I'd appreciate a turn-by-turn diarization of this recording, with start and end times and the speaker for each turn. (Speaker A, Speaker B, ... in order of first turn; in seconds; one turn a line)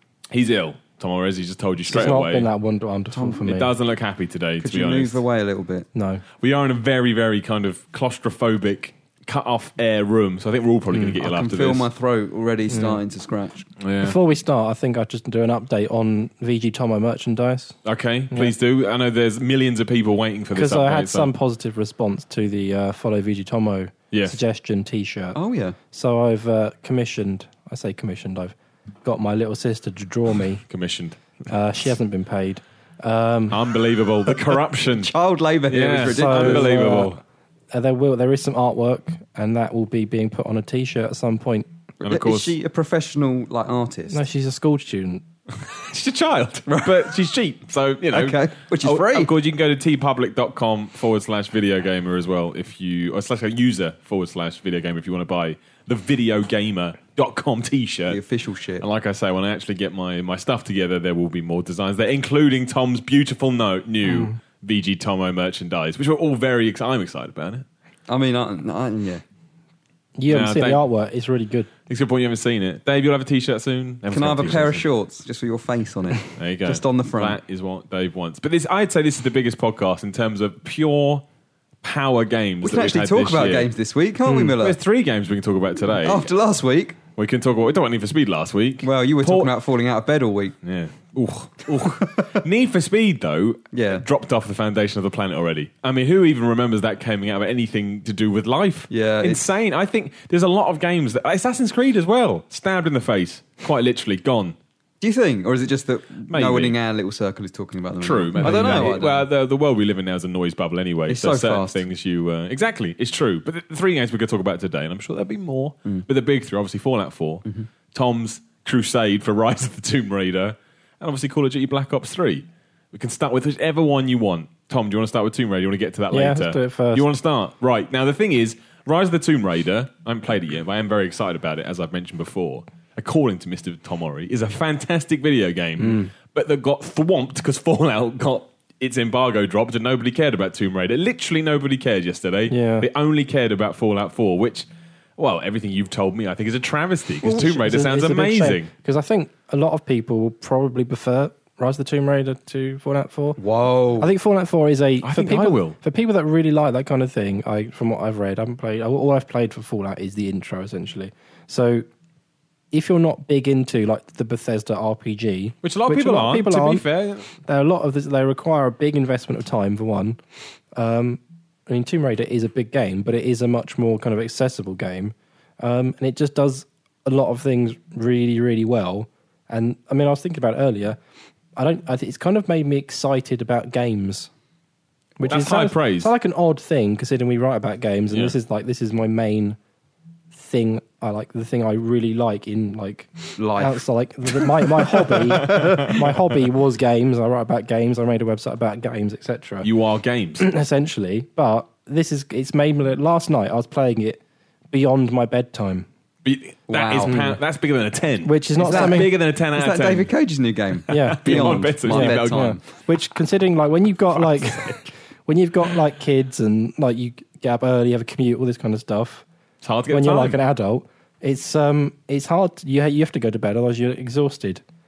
Speaker A: 0.3-2.5
Speaker B: 1.9-3.7
Speaker C: 3.1-3.5
Speaker A: 3.4-5.2
Speaker C: 4.6-5.9
Speaker B: 5.9-6.2
Speaker A: 6.4-11.8
Speaker C: 11.1-13.7
Speaker B: 12.7-13.0
Speaker A: 13.8-14.2
Speaker B: 14.0-17.8
Speaker A: 17.8-21.3
Speaker B: 20.5-25.4
Speaker A: 24.1-24.4
Speaker C: 25.3-25.8
Speaker B: 25.9-30.6
Speaker A: 30.7-31.2
Speaker B: 31.5-33.6
Speaker A: 33.5-35.1
Speaker C: 35.0-37.1
Speaker A: 35.7-37.2
Speaker B: 36.1-37.2
Speaker B: 37.7-41.6
Speaker A: 42.0-42.5
Speaker C: 42.0-44.2
Speaker B: 44.1-45.2
Speaker A: 45.6-58.2
Speaker C: 46.7-47.1
Speaker C: 48.1-49.3
Speaker C: 58.1-58.8
Speaker A: 58.8-67.6
Speaker B: 64.0-64.4
Speaker C: 68.1-69.2
Speaker B: 70.2-71.7
Speaker A: 70.3-70.8
Speaker A: 71.9-74.8
Speaker C: 74.1-77.4
Speaker A: 76.3-81.2
Speaker A: 81.8-83.7
Speaker C: 82.6-84.8
Speaker B: 84.3-84.5
Speaker A: 84.6-86.3
Speaker C: 85.9-87.0
Speaker A: 87.2-89.5
Speaker C: 88.8-90.6
Speaker A: 90.6-104.5
Speaker C: 92.0-92.3
Speaker C: 93.7-94.0
Speaker C: 98.9-99.4
Speaker C: 105.0-109.3
Speaker A: 106.3-106.8
Speaker A: 108.0-148.7
Speaker B: 108.4-108.9
Speaker C: 111.1-111.8
Speaker B: 126.1-127.0
Speaker B: 135.8-136.1
Speaker B: 142.5-142.9
Speaker B: 147.2-153.4
Speaker C: 153.4-154.1
Speaker B: 154.0-161.8
Speaker A: 155.0-155.8
Speaker B: 162.7-166.8
Speaker A: 165.6-167.3
Speaker B: 167.4-170.2
Speaker B: 170.7-181.0
Speaker B: 181.6-184.3
Speaker B: 185.2-189.6
Speaker A: 185.3-186.1
Speaker B: 190.3-199.7
Speaker C: 193.4-193.8
Speaker C: 194.6-195.9
Speaker A: 195.5-195.9
Speaker A: 199.6-200.5
Speaker B: 200.4-205.8
Speaker A: 206.2-210.1
Speaker C: 206.7-207.2
Speaker B: 207.0-207.4
Speaker B: 208.2-209.1
Speaker C: 208.6-212.6
Speaker B: 210.9-219.2
Speaker A: 210.9-212.5
Speaker A: 214.2-214.8
Speaker A: 219.6-220.4
Speaker B: 219.9-224.6